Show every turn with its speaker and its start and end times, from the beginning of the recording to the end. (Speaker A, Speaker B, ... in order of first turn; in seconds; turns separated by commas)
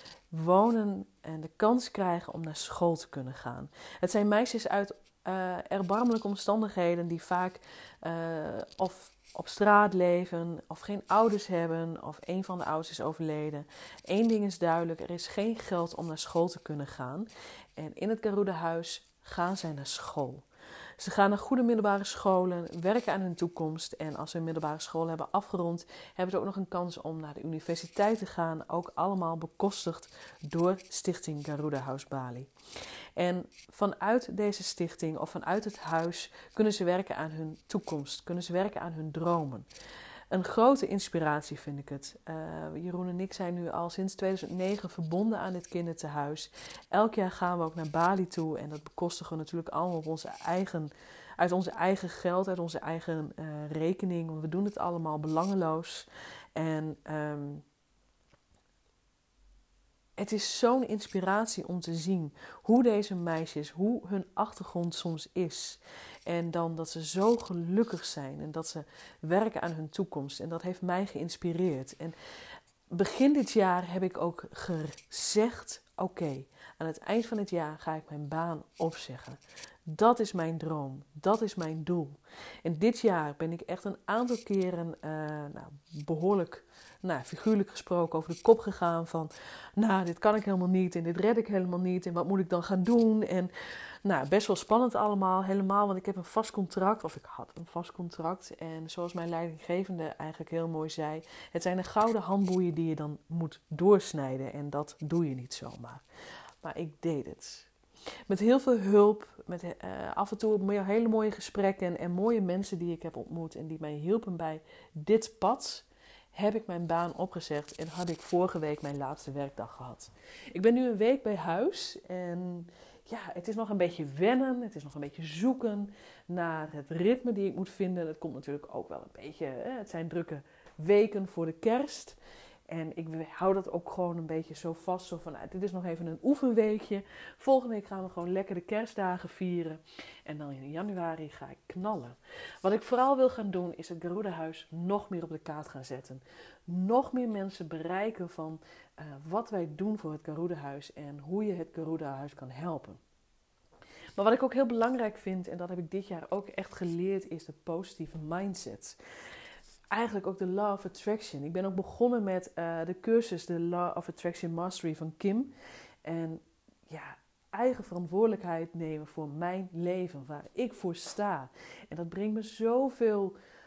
Speaker A: 0.3-20.4, Speaker A: 21.0-32.5, Speaker A: 33.1-39.7, Speaker A: 40.3-57.6, Speaker A: 60.2-72.2, Speaker A: 72.9-93.5, Speaker A: 94.0-106.0, Speaker A: 106.6-107.7, Speaker A: 108.3-153.0, Speaker A: 154.2-159.0, Speaker A: 159.9-165.5, Speaker A: 166.0-173.3